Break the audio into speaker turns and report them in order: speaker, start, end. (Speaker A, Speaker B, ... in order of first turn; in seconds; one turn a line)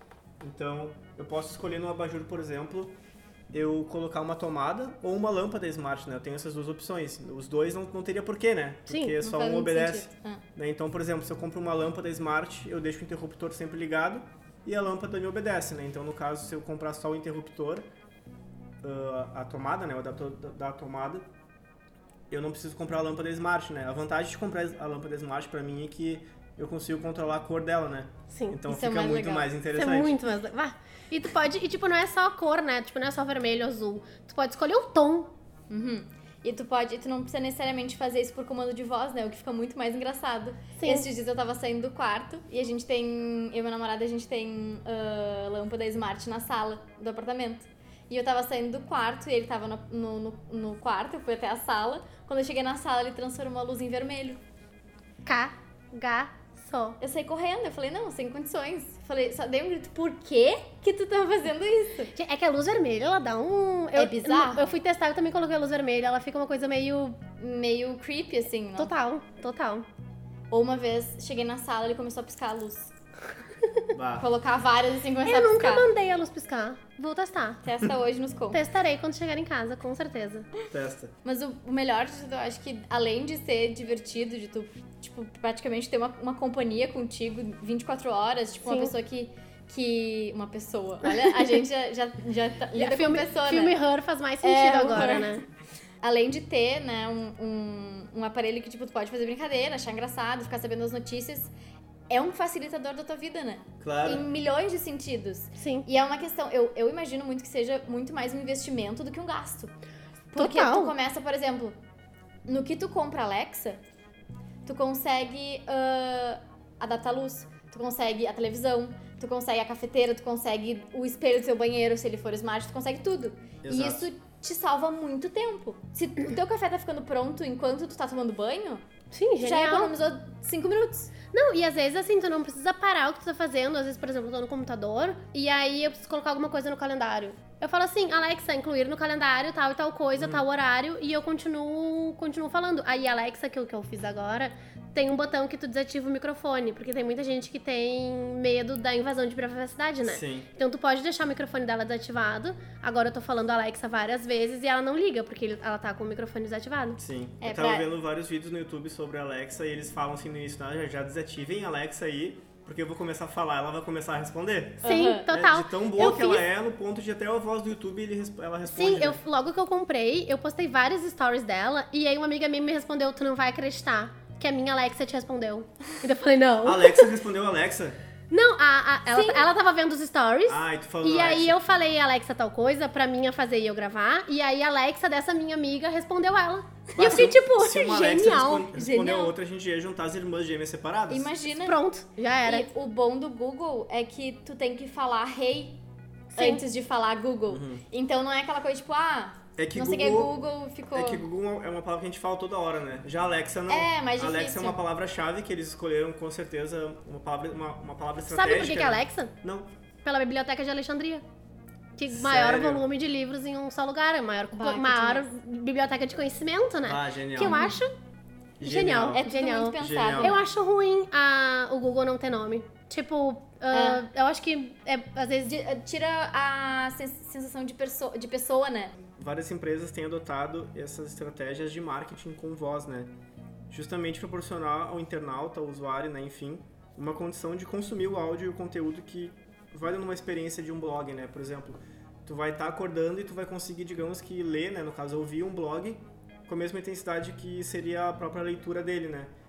Speaker A: 0.4-2.9
Speaker A: 3.5-17.9
Speaker B: 8.9-9.2
Speaker C: 9.2-10.4
Speaker A: 18.8-21.2
Speaker A: 22.3-30.2
Speaker B: 28.3-28.6
Speaker C: 28.6-29.5
Speaker B: 29.7-35.3
Speaker C: 35.7-54.4
Speaker B: 40.8-41.1
Speaker B: 55.2-57.0
Speaker C: 57.0-62.1
Speaker B: 62.1-67.2
Speaker C: 63.9-64.7
Speaker C: 67.4-68.9
Speaker B: 68.8-69.8
Speaker C: 70.5-72.9
Speaker A: 73.9-74.3
Speaker C: 74.2-75.9
Speaker B: 75.2-77.6
Speaker C: 77.6-78.6
Speaker B: 78.5-80.5
Speaker A: 80.7-81.1
Speaker C: 81.2-93.8
Speaker B: 88.6-88.9
Speaker B: 91.0-91.6
Speaker B: 92.7-95.4
Speaker C: 94.4-95.4
Speaker C: 96.0-101.5
Speaker C: 102.1-109.7
Speaker A: 103.8-104.2
Speaker B: 105.6-105.8
Speaker C: 110.3-111.8
Speaker B: 110.3-110.9
Speaker C: 112.5-113.8
Speaker C: 114.6-128.8
Speaker A: 123.6-124.0
Speaker B: 129.1-129.9
Speaker C: 129.4-131.1
Speaker B: 131.3-157.0
Speaker A: 140.2-140.4
Speaker A: 150.0-150.5
Speaker A: 157.0-169.2
Speaker C: 157.4-157.9
Speaker C: 164.8-165.2
Speaker B: 164.8-166.4
Speaker B: 168.7-177.1
Speaker A: 176.6-178.0
Speaker B: 178.3-188.7
Speaker C: 179.1-179.5
Speaker A: 180.5-181.6
Speaker A: 187.0-191.3
Speaker C: 188.7-189.3
Speaker C: 191.1-191.8
Speaker B: 191.6-192.7
Speaker C: 192.4-195.8
Speaker B: 196.3-196.6
Speaker C: 196.3-201.2
Speaker A: 197.5-197.8
Speaker A: 199.6-200.3
Speaker A: 200.9-209.7
Speaker C: 203.7-204.8
Speaker B: 208.3-209.3
Speaker B: 210.0-211.2
Speaker B: 212.0-217.9
Speaker A: 212.1-212.8
Speaker C: 214.5-215.3
Speaker A: 216.8-217.7
Speaker A: 218.6-219.2
Speaker B: 218.6-225.5
Speaker C: 219.1-220.4
Speaker A: 219.8-220.4
Speaker C: 223.7-224.0
Speaker C: 225.4-228.9
Speaker A: 229.2-233.1
Speaker A: 233.7-249.3